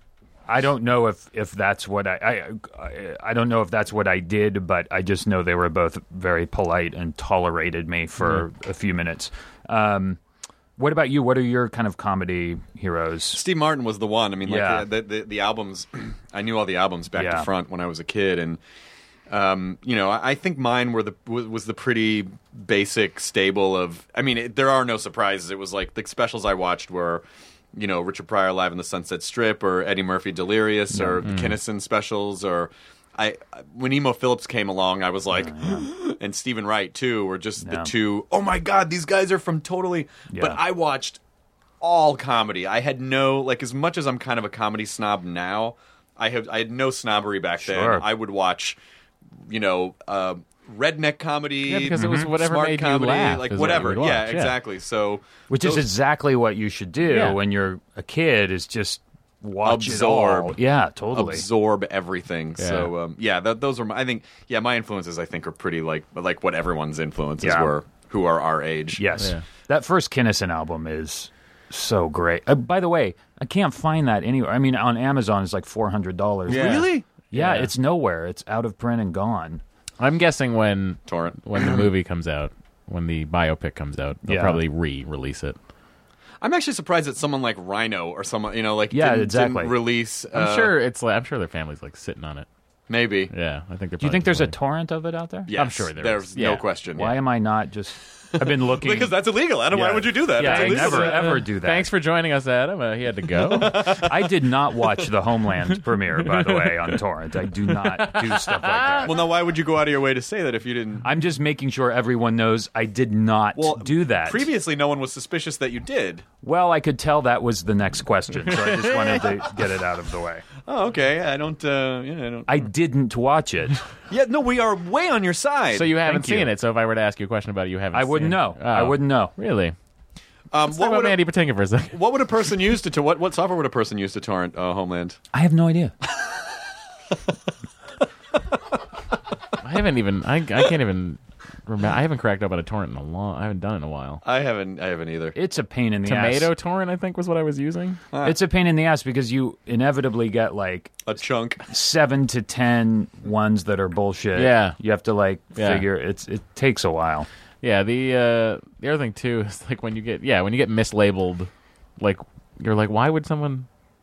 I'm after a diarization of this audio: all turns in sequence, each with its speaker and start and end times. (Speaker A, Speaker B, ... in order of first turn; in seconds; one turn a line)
Speaker A: 0.5-10.2
Speaker A: 10.8-13.4
Speaker B: 13.3-18.6
Speaker A: 14.4-14.9
Speaker A: 17.1-17.5
Speaker B: 19.3-41.2
Speaker A: 30.9-31.2
Speaker C: 31.2-31.6
Speaker A: 35.4-35.9
Speaker A: 37.6-37.9
Speaker A: 40.3-40.6
Speaker B: 41.8-48.8
Speaker A: 47.6-48.0
Speaker B: 49.5-55.9
Speaker C: 51.7-54.6
Speaker A: 52.0-52.3
Speaker A: 55.5-61.4
Speaker C: 57.1-57.4
Speaker B: 59.6-60.6
Speaker B: 61.1-69.0
Speaker C: 62.6-62.9
Speaker A: 67.4-67.7
Speaker A: 69.0-79.6
Speaker C: 69.2-69.4
Speaker B: 76.5-77.0
Speaker C: 76.5-77.7
Speaker C: 80.0-85.6
Speaker B: 81.1-81.8
Speaker A: 84.2-84.6
Speaker B: 86.4-90.7
Speaker A: 88.9-89.7
Speaker C: 90.3-92.5
Speaker B: 92.9-93.3
Speaker C: 93.3-94.6
Speaker A: 94.0-95.5
Speaker B: 95.5-97.1
Speaker C: 95.5-96.6
Speaker A: 97.0-99.2
Speaker B: 98.3-101.2
Speaker A: 99.7-101.9
Speaker C: 100.4-104.1
Speaker A: 103.6-109.2
Speaker C: 106.4-106.7
Speaker C: 107.9-109.1
Speaker B: 109.1-111.1
Speaker A: 111.0-114.5
Speaker B: 113.6-116.2
Speaker A: 116.4-120.5
Speaker B: 120.7-122.6
Speaker A: 122.5-123.8
Speaker B: 124.1-126.4
Speaker C: 125.7-129.7
Speaker A: 126.1-126.5
Speaker A: 127.9-129.3
Speaker B: 130.5-131.2
Speaker C: 130.7-132.0
Speaker B: 131.9-135.2
Speaker A: 135.3-135.9
Speaker C: 139.6-144.2
Speaker B: 144.2-145.4
Speaker A: 145.4-146.5
Speaker C: 146.1-148.0
Speaker A: 148.2-151.0
Speaker B: 151.1-151.6
Speaker A: 151.7-157.3
Speaker C: 154.3-154.8
Speaker C: 155.6-155.9
Speaker C: 157.6-163.7